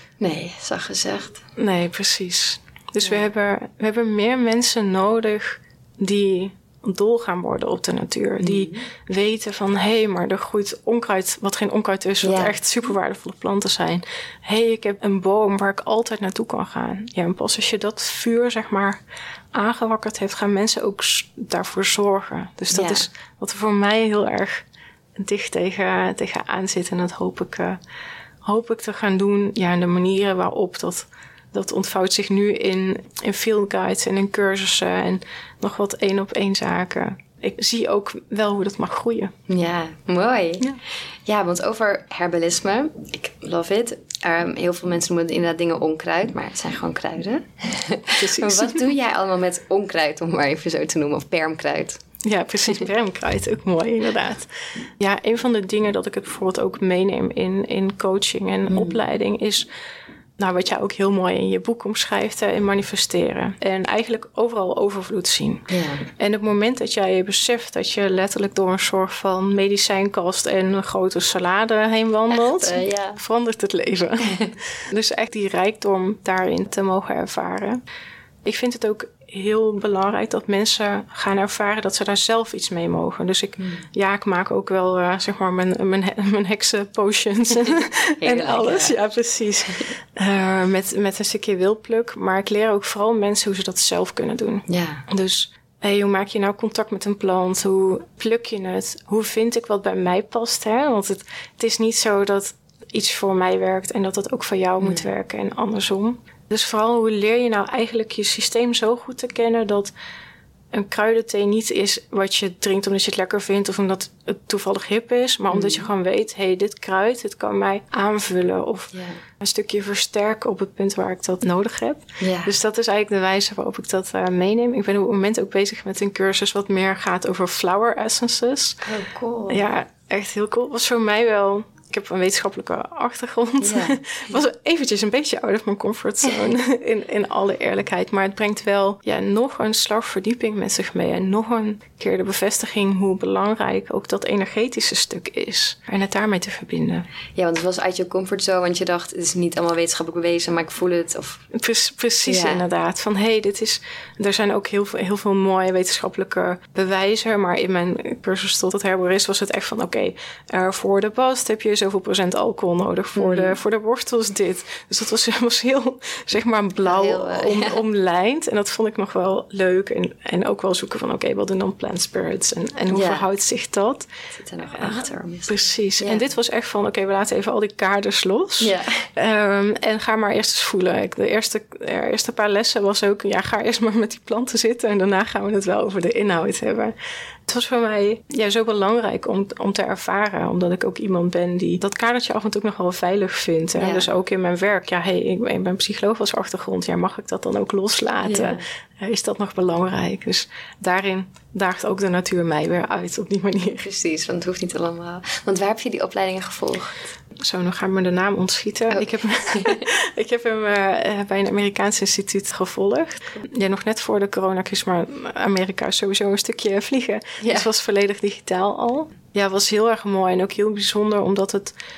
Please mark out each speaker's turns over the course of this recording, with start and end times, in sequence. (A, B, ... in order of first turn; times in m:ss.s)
0:00.2-0:01.4 A
0:01.6-0:19.0 B
0:08.4-0:08.9 A
0:12.2-0:12.6 A
0:19.5-0:24.6 B
0:22.7-0:23.1 A
0:25.2-0:27.8 B
0:28.5-0:39.3 B
0:39.5-0:52.0 A
0:48.1-0:48.9 B
0:52.2-0:59.7 B
0:58.7-0:59.0 A
1:00.4-1:17.8 B
1:05.7-1:06.1 A
1:12.3-1:13.2 A
1:14.2-1:14.5 A
1:18.4-1:49.9 B
1:23.6-1:23.9 A
1:28.2-1:29.0 A
1:34.7-1:35.0 A
1:44.8-1:45.1 A
1:50.7-2:08.8 B
1:55.5-1:55.9 A
1:58.9-1:59.2 A
2:02.2-2:02.5 A
2:08.8-2:09.7 A
2:09.5-2:27.1 B
2:13.6-2:14.0 A
2:16.3-2:16.5 A
2:27.4-2:31.4 A
2:31.5-2:54.1 B
2:32.3-2:32.6 A
2:43.2-2:43.6 A
2:46.8-2:47.8 A
2:52.9-2:53.2 A
2:54.4-2:56.2 A
2:54.7-3:06.9 B
2:58.6-2:59.1 A
3:07.5-3:23.9 B
3:13.8-3:14.1 A
3:18.2-3:18.6 A
3:23.7-3:27.0 A
3:27.4-3:41.7 B
3:28.9-3:29.9 A
3:37.4-3:37.7 A